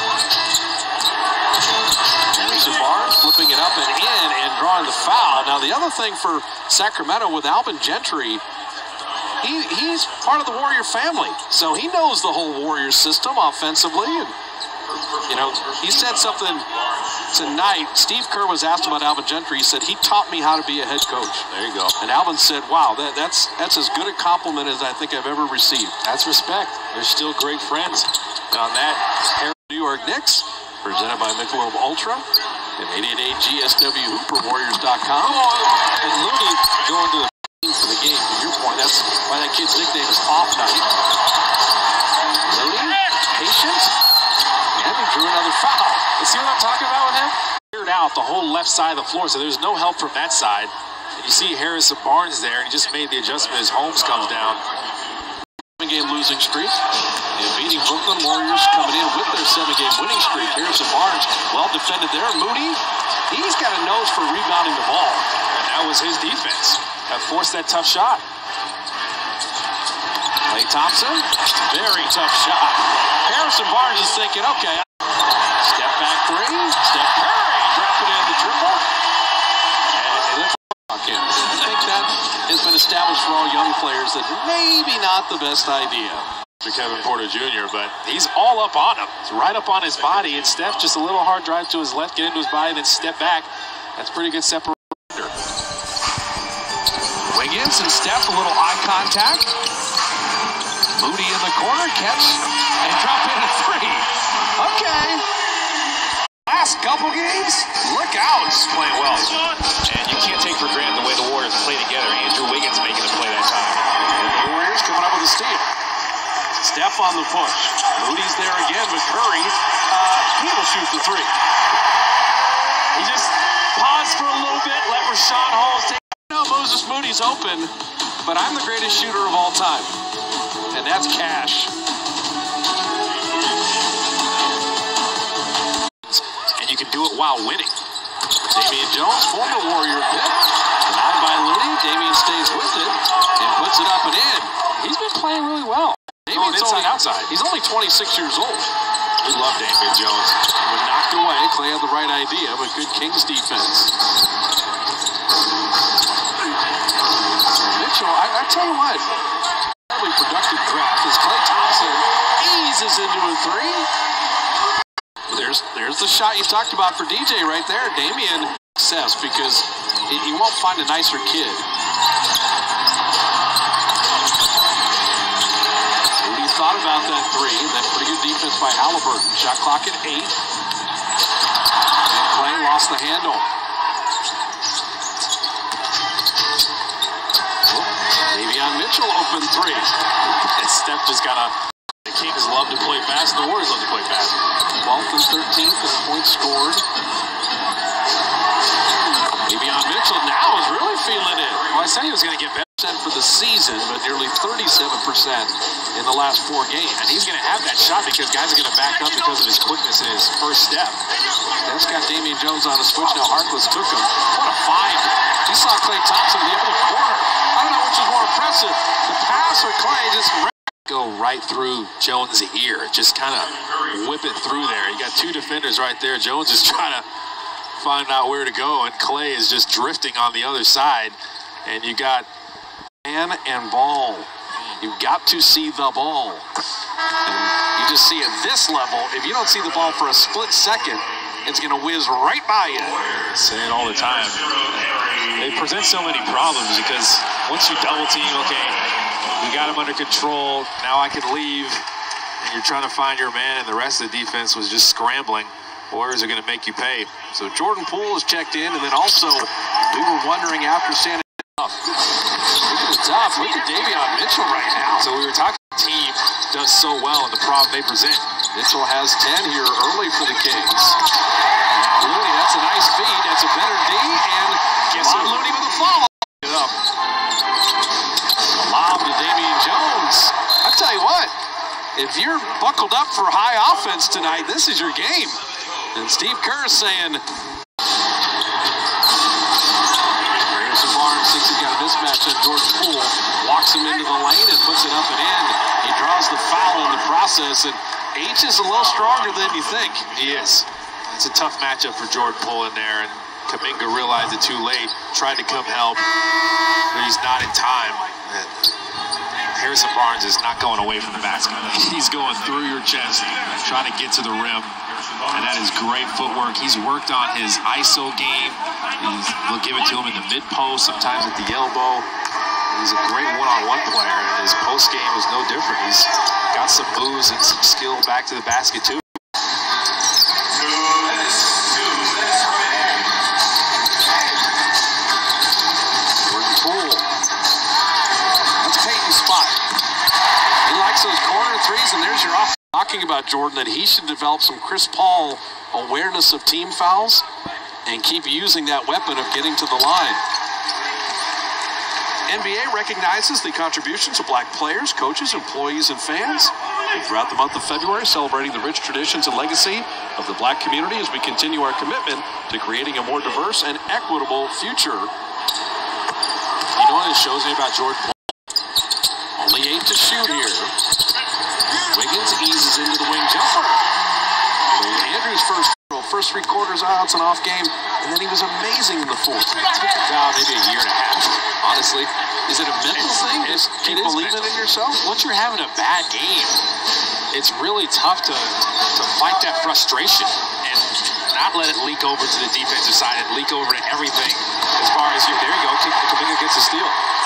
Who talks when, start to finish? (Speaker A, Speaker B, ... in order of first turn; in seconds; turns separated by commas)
Speaker A: 2.3-8.4, Speaker A: 9.4-14.3, Speaker A: 15.2-26.1, Speaker B: 21.5-21.9, Speaker B: 26.0-28.1, Speaker A: 28.5-35.5, Speaker B: 35.5-37.5, Speaker A: 37.5-40.9, Speaker A: 42.4-44.0, Speaker A: 44.7-46.2, Speaker B: 46.2-54.6, Speaker A: 55.8-56.8, Speaker A: 57.3-65.3, Speaker B: 65.5-68.2, Speaker A: 70.5-74.9, Speaker A: 75.5-78.9, Speaker A: 79.9-86.3, Speaker B: 86.6-95.3, Speaker A: 97.3-99.5, Speaker A: 100.9-105.2, Speaker A: 106.5-109.4, Speaker B: 108.8-109.2, Speaker B: 109.8-113.8, Speaker A: 114.0-115.7, Speaker A: 116.6-121.3, Speaker A: 122.9-129.9, Speaker A: 130.7-131.7, Speaker B: 136.1-137.7, Speaker A: 138.5-148.7, Speaker B: 146.3-147.3, Speaker B: 149.2-150.4, Speaker A: 150.5-153.9, Speaker A: 157.5-159.2, Speaker A: 159.7-163.9, Speaker A: 165.3-171.7, Speaker A: 176.2-180.4, Speaker A: 182.1-183.5, Speaker A: 187.7-190.0, Speaker B: 190.6-194.3, Speaker A: 194.8-196.8, Speaker A: 199.4-201.8, Speaker B: 201.7-202.7, Speaker A: 202.6-207.1, Speaker B: 207.0-211.0, Speaker A: 211.6-220.5, Speaker B: 220.9-227.1, Speaker B: 227.8-232.3, Speaker A: 233.1-234.3, Speaker A: 234.8-236.5, Speaker A: 237.2-243.1, Speaker B: 243.1-248.8, Speaker B: 249.4-251.8, Speaker B: 252.4-257.2, Speaker A: 257.3-261.8, Speaker A: 262.6-265.1, Speaker B: 264.9-268.4, Speaker A: 268.5-271.0, Speaker A: 271.7-276.8, Speaker B: 274.9-275.4, Speaker A: 278.5-281.4, Speaker A: 281.9-285.4, Speaker A: 285.9-287.2, Speaker A: 290.4-300.1, Speaker B: 300.1-306.1, Speaker B: 306.9-308.7, Speaker B: 309.5-314.8, Speaker B: 315.3-322.1, Speaker B: 322.7-329.0, Speaker A: 331.9-332.8, Speaker A: 336.2-337.1, Speaker A: 338.6-339.6, Speaker A: 340.6-347.3, Speaker A: 347.9-350.2, Speaker A: 352.3-365.1, Speaker A: 366.7-368.2, Speaker A: 369.4-370.8, Speaker A: 371.9-373.8, Speaker A: 374.7-379.9, Speaker B: 379.8-381.5, Speaker A: 381.4-385.0, Speaker B: 382.9-386.6, Speaker B: 387.3-397.0